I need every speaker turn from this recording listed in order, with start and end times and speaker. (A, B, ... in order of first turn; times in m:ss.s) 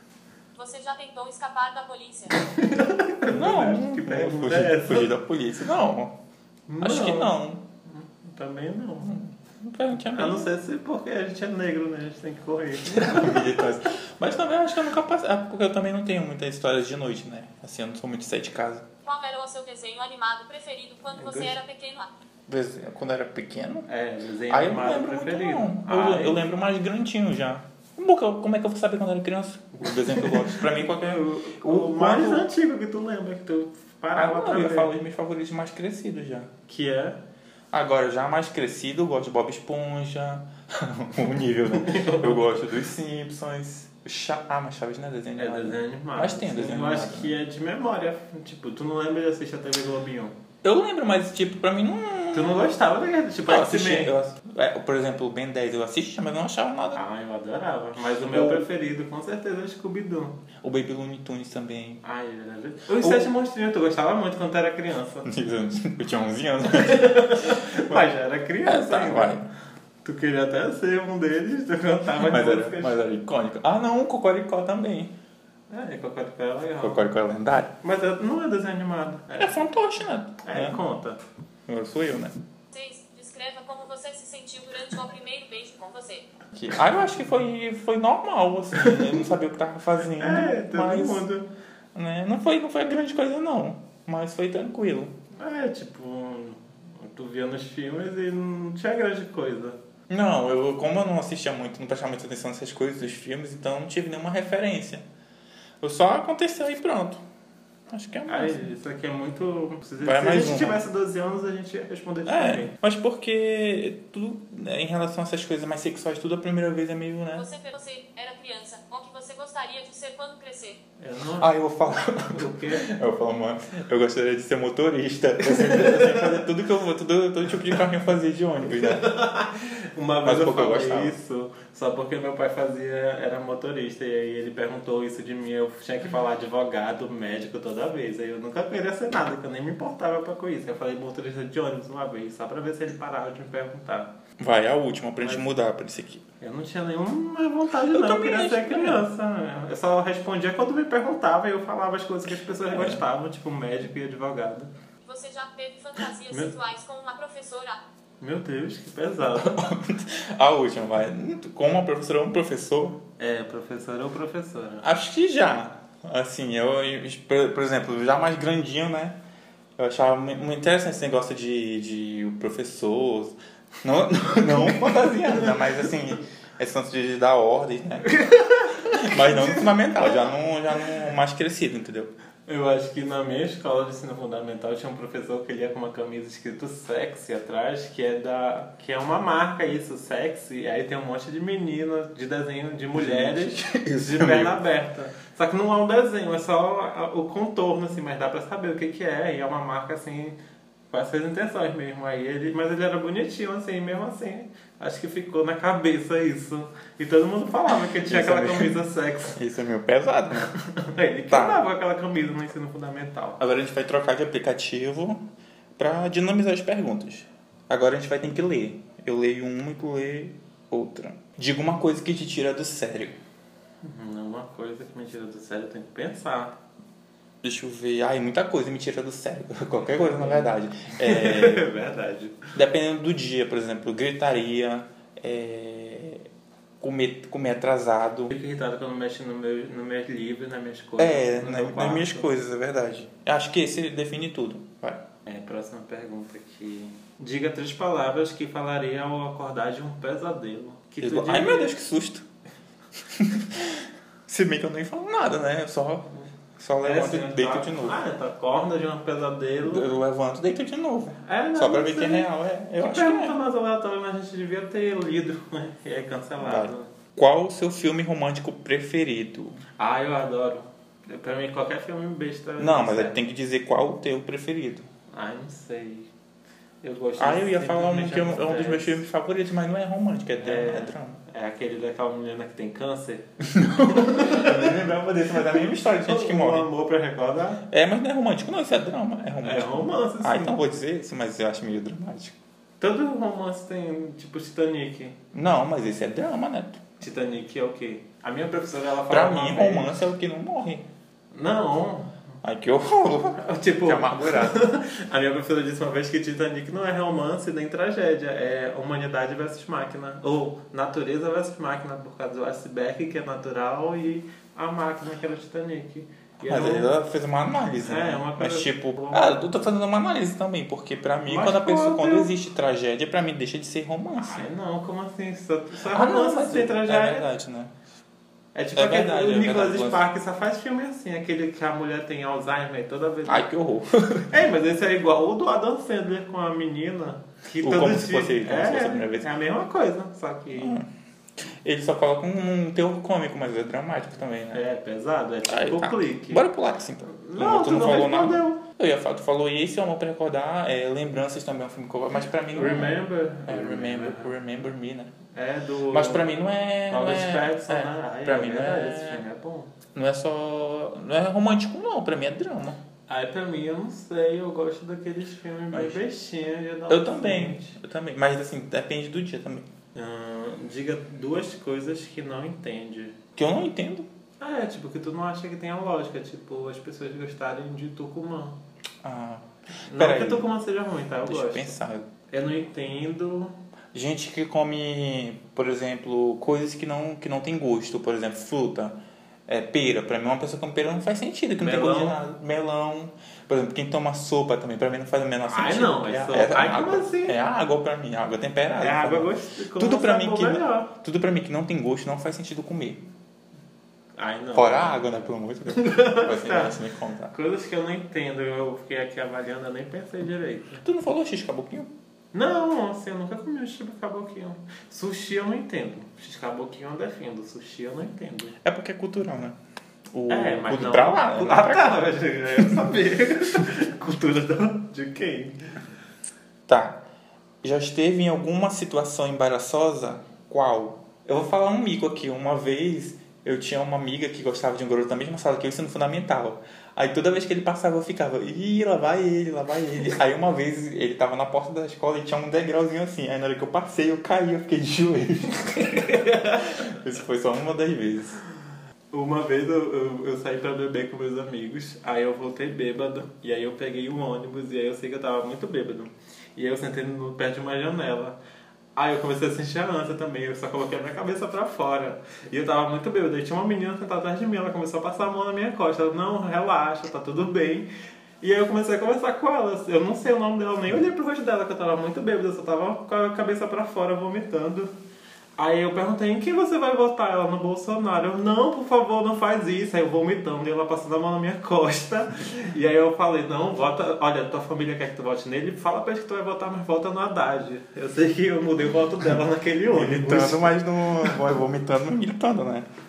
0:00.6-0:02.5 A
0:02.4-0:05.1 B
0:03.3-0:06.2 C
0:06.7-0:09.2 B
0:06.8-0:07.6 C
0:09.6-0:10.5 C
0:10.1-0:13.6 B
0:12.9-0:18.8 C
0:19.0-0:22.1 A
0:21.2-0:21.6 B
0:22.5-0:23.9 C
0:23.9-0:26.4 B
0:24.5-0:32.5 C
0:29.8-0:34.9 B
0:34.2-0:36.5 C
0:36.7-0:37.2 B
0:37.7-0:47.4 C
0:41.7-0:42.7 B
0:45.4-0:50.4 B
0:50.6-0:52.8 C
0:52.3-0:54.1 B
0:53.5-0:57.0 C
0:56.9-1:00.4 B
0:58.2-0:58.7 C
1:00.6-1:02.0 C
1:02.0-1:05.3 B
1:03.0-1:03.3 C
1:05.2-1:08.1 C
1:06.6-1:09.4 B
1:08.6-1:09.5 C
1:10.0-1:13.0 B
1:12.2-1:15.1 C
1:15.7-1:17.1 B
1:16.8-1:17.8 C
1:17.8-1:19.7 B
1:19.4-1:20.8 C
1:20.4-1:21.2 B
1:21.7-1:22.4 C
1:22.7-1:26.3 A
1:26.6-1:31.2 C
1:28.8-1:29.3 B
1:30.2-1:31.5 B
1:32.0-1:35.2 C
1:35.4-1:39.8 B
1:40.1-1:45.0 C
1:45.8-1:47.2 C
1:47.9-1:48.6 C
1:48.3-1:52.8 B
1:50.0-1:50.8 C
1:52.3-1:57.4 C
1:57.3-2:00.8 A
2:01.0-2:01.5 B
2:01.4-2:09.1 C
2:02.3-2:02.9 B
2:05.4-2:06.4 B
2:08.6-2:24.2 B
2:10.2-2:11.2 C
2:24.4-2:26.2 C
2:25.2-2:25.5 B
2:26.4-2:34.7 B
2:27.8-2:29.1 C
2:32.7-2:33.0 C
2:35.0-2:37.8 A
2:38.2-2:39.8 B
2:39.3-2:43.0 C
2:43.2-2:44.8 B
2:44.8-2:49.2 C
2:49.8-2:58.1 C
2:54.4-2:55.6 B
2:58.0-3:00.2 B
2:58.8-3:02.1 C
3:02.5-3:20.4 B
3:13.0-3:14.6 C
3:20.9-3:29.4 B
3:28.0-3:28.8 C
3:29.3-3:30.6 C
3:30.6-3:33.4 B
3:31.3-3:31.6 C
3:33.4-3:35.2 C
3:35.8-3:43.2 C
3:43.8-3:46.6 B
3:47.4-3:51.7 C
3:49.8-3:52.5 B
3:52.6-3:56.3 C
3:56.8-3:58.3 C
3:58.3-4:02.3 B
4:01.0-4:05.0 C
4:05.3-4:11.7 B
4:11.0-4:12.3 C
4:13.1-4:18.0 C
4:16.8-4:19.9 B
4:19.6-4:23.4 C
4:21.2-4:26.9 B
4:26.4-4:29.6 C
4:29.8-4:33.2 B
4:32.6-4:34.9 C
4:35.1-4:36.1 B
4:36.8-4:39.0 B
4:37.2-4:41.2 C
4:40.4-4:43.3 B
4:43.4-4:46.7 C
4:43.8-4:44.8 B
4:45.5-4:47.6 B
4:47.7-4:52.4 C
4:49.4-4:50.6 B
4:52.8-4:55.2 B
4:55.3-4:56.8 C
4:57.0-5:00.1 B
4:59.1-5:00.8 C
5:01.3-5:02.2 B
5:02.4-5:04.7 C
5:03.4-5:16.9 B
5:16.4-5:24.5 C
5:17.8-5:19.5 B
5:21.3-5:22.3 B
5:24.2-5:27.3 B
5:25.9-5:27.7 C
5:28.6-5:33.5 B
5:28.8-5:30.0 C
5:33.3-5:34.3 C
5:34.3-5:40.8 B
5:37.6-5:39.3 C
5:40.5-5:40.9 C
5:41.5-5:44.6 C
5:44.5-5:46.5 B
5:45.5-5:55.1 C
5:47.1-5:48.6 B
5:52.5-5:54.3 B
5:55.3-5:59.7 B
5:55.9-5:59.2 C
5:59.9-6:02.8 C
6:03.1-6:07.8 B
6:05.7-6:06.0 C
6:06.9-6:09.7 C
6:09.9-6:13.2 B
6:13.4-6:14.1 C
6:14.4-6:18.6 B
6:19.0-6:20.5 C
6:19.9-6:21.8 B
6:21.2-6:22.1 C
6:22.3-6:23.6 B
6:23.9-6:43.0 C
6:31.6-6:32.2 B
6:35.5-6:37.5 B
6:38.8-6:40.9 B
6:44.1-6:45.1 B
6:44.5-6:47.4 C
6:45.7-6:46.8 B
6:47.3-6:50.8 B
6:50.8-6:51.9 C
6:52.3-6:58.6 B
6:58.6-6:59.6 C
7:00.1-7:02.1 C
7:00.3-7:05.6 B
7:06.7-7:07.0 C
7:07.6-7:28.4 C
7:25.8-7:26.8 B
7:29.1-7:38.4 B
7:39.0-7:47.9 B
7:48.4-7:54.9 B
7:55.6-8:10.8 B
8:09.9-8:12.9 C